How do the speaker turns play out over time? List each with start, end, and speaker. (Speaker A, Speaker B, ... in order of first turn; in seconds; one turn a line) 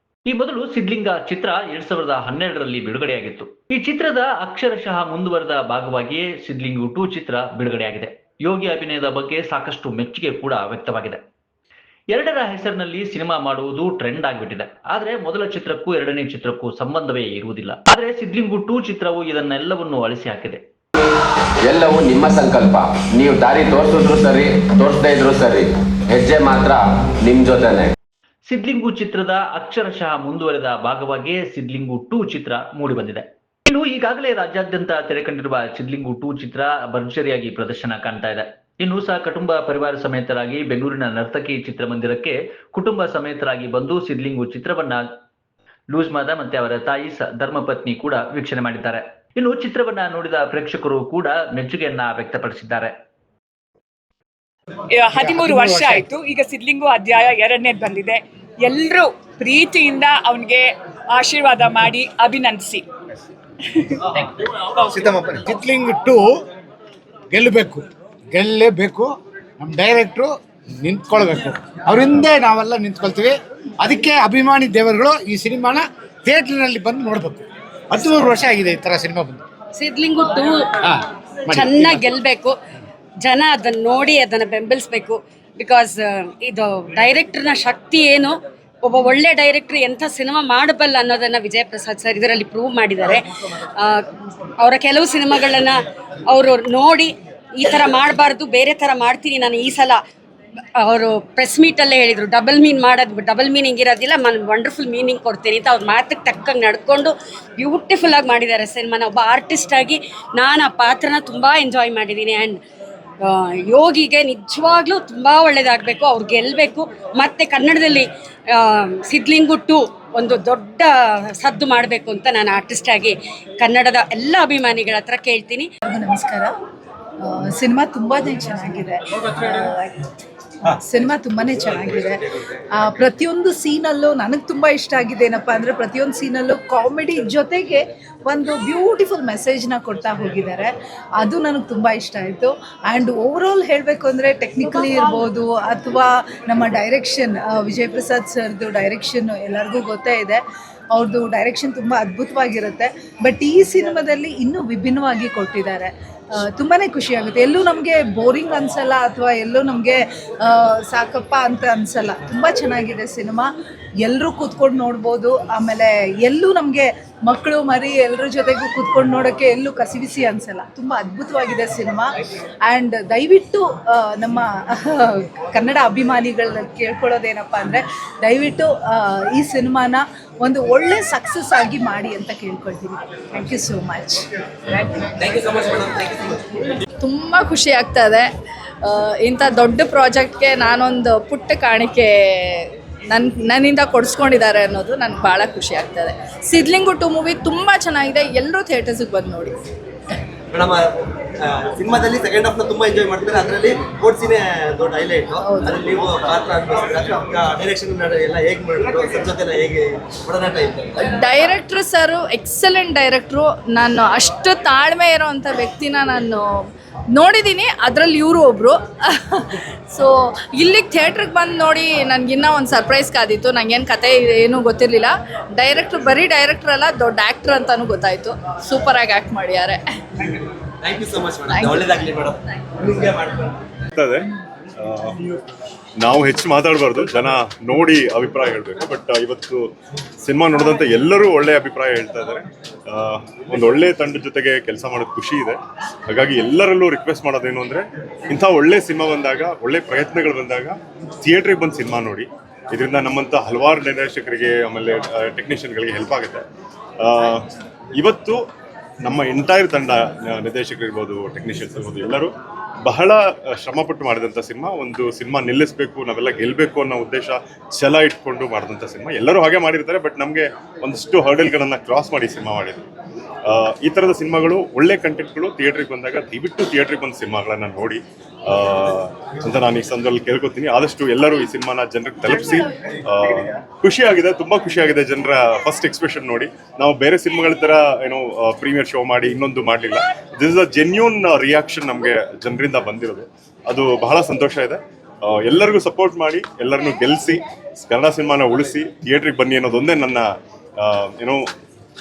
Speaker A: 0.3-11.2
Speaker A: 12.1-20.6
Speaker B: 21.7-27.9
Speaker A: 28.5-45.0
Speaker A: 45.9-52.9
Speaker C: 54.9-62.8
Speaker D: 55.3-56.0
Speaker D: 65.0-66.4
Speaker D: 67.3-79.4
Speaker E: 79.8-80.8
Speaker D: 80.9-82.0
Speaker E: 81.5-82.5
Speaker E: 83.2-94.1
Speaker E: 94.6-100.0
Speaker E: 100.8-112.6
Speaker E: 113.2-125.7
Speaker F: 125.8-126.5
Speaker F: 127.2-129.9
Speaker F: 130.7-132.2
Speaker F: 132.7-150.4
Speaker F: 150.9-163.5
Speaker F: 164.0-172.1
Speaker F: 172.7-185.2
Speaker G: 185.3-186.1
Speaker H: 187.0-188.3
Speaker H: 188.8-199.6
Speaker G: 200.5-210.9
Speaker H: 205.4-205.9
Speaker H: 211.0-229.8
Speaker G: 230.8-233.6
Speaker H: 231.5-232.0
Speaker I: 233.9-235.2
Speaker I: 236.0-239.7
Speaker I: 240.2-256.4
Speaker I: 257.0-257.4
Speaker I: 258.0-258.4
Speaker I: 259.0-262.3
Speaker I: 262.9-272.8
Speaker I: 273.4-301.5